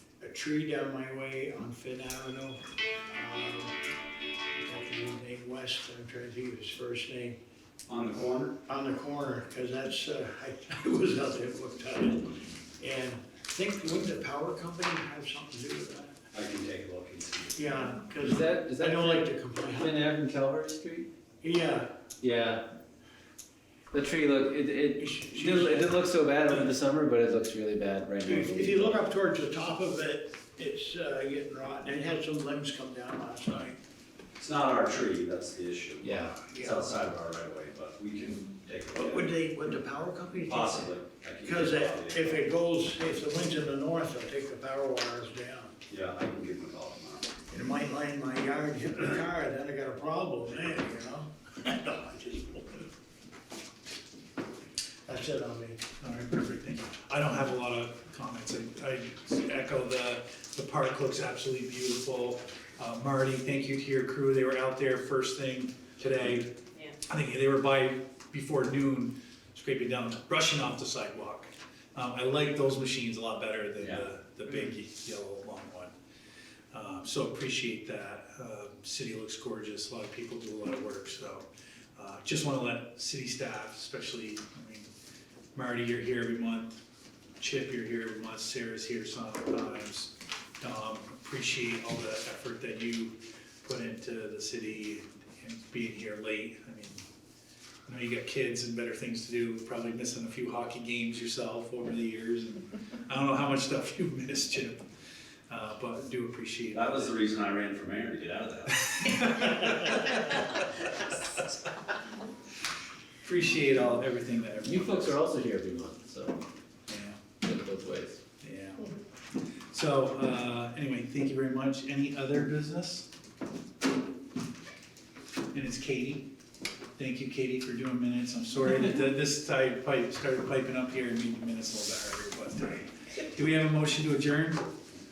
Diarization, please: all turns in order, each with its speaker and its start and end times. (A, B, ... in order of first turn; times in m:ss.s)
0:00.2-0:03.8 A
0:04.5-0:07.4 A
0:07.9-0:08.6 B
0:08.6-0:16.1 A
0:16.3-0:17.7 B
0:17.5-0:19.9 A
0:18.2-0:21.1 C
0:21.4-0:21.9 A
0:22.2-0:22.6 C
0:23.9-0:29.0 C
0:25.0-0:26.0 A
0:28.2-0:33.8 A
0:34.4-0:39.4 B
0:36.0-0:36.4 C
0:36.5-0:36.8 A
0:38.9-0:45.7 A
0:40.4-0:42.5 B
0:45.9-0:47.3 B
0:47.5-0:52.9 A
0:55.1-0:55.8 A
0:56.0-1:06.5 D
1:07.0-1:15.9 D
1:16.7-1:21.4 D
1:22.0-1:24.9 D
1:25.5-1:26.8 D
1:27.4-1:37.0 D
1:37.9-1:44.8 D
1:45.5-1:47.1 D
1:46.7-1:49.4 B
1:49.0-1:50.5 D
1:53.2-1:55.2 D
1:54.6-1:56.4 C
1:56.9-1:57.3 D
1:57.4-1:58.2 C
1:58.4-1:58.9 D
1:59.7-2:03.1 D
2:05.5-2:06.3 D
2:07.0-2:14.6 D